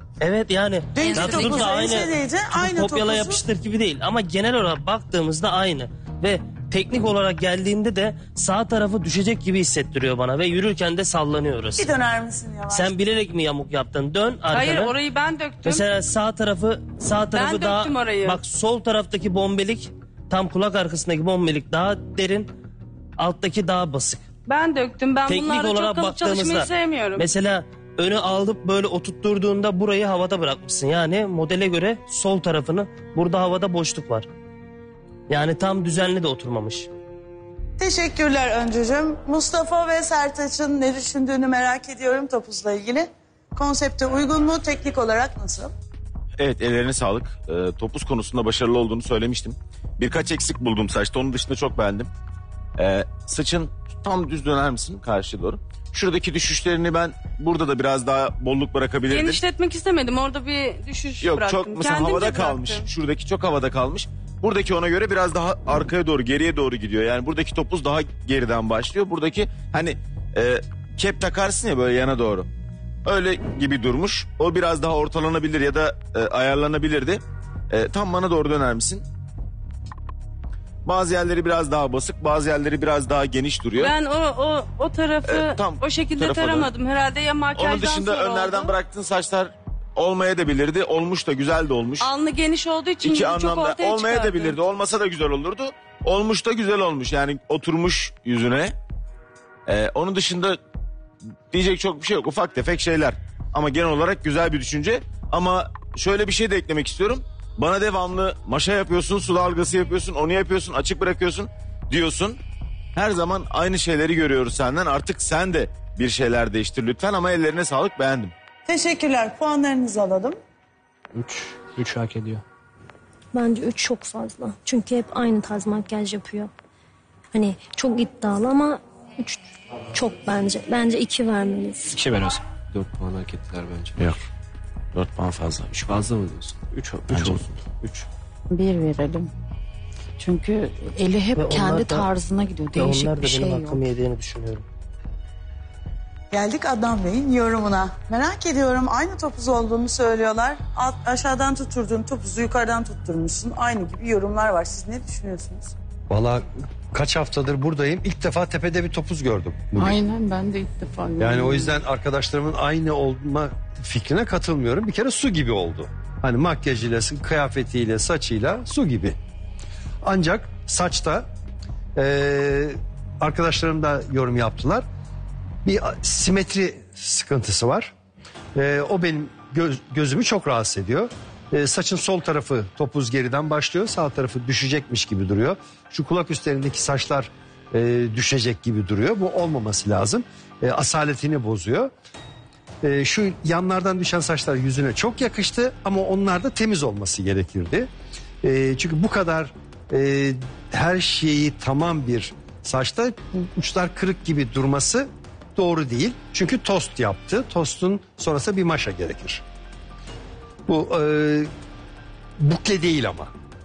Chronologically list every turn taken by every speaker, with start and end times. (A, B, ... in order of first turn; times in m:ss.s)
0:00.2-0:11.9 A
0:01.0-0:03.4 B
0:11.8-0:12.9 B
0:12.7-0:15.0 A
0:14.5-0:15.8 C
0:15.6-0:22.5 A
0:17.3-0:18.4 C
0:23.2-0:24.2 A
0:24.5-0:27.2 C
0:25.3-0:34.3 A
0:35.3-0:36.9 A
0:37.8-0:45.7 B
0:46.4-0:52.1 D
0:52.8-0:59.4 D
0:59.1-1:02.8 C
1:01.2-1:12.5 D
1:13.0-1:19.0 D
1:20.8-1:23.9 D
1:23.8-1:28.8 C
1:25.3-1:26.7 D
1:27.6-1:32.1 D
1:32.0-1:34.6 C
1:33.0-1:38.8 D
1:39.7-1:40.6 D
1:41.5-1:52.4 D
1:52.9-1:58.3 D
1:58.7-2:00.4 B
2:01.2-2:02.4 E
2:03.3-2:06.5 F
2:07.3-2:09.4 F
2:09.9-2:12.0 F
2:11.9-2:12.4 E
2:12.7-2:14.1 G
2:15.0-2:16.0 D
2:15.9-2:16.6 G
2:16.7-2:18.0 E
2:17.1-2:17.4 D
2:18.5-2:19.3 H
2:20.2-2:23.8 H
2:21.4-2:22.1 A
2:22.7-2:24.6 A
2:26.3-2:35.7 B
2:36.1-2:40.0 I
2:39.8-2:41.8 J
2:41.2-2:49.2 I
2:50.0-2:51.3 I
2:52.0-2:54.9 I
2:55.6-2:57.9 I
2:58.6-3:11.9 I
3:12.8-3:17.9 I
3:18.4-3:29.4 I
3:30.7-3:31.5 I
3:32.4-3:33.3 I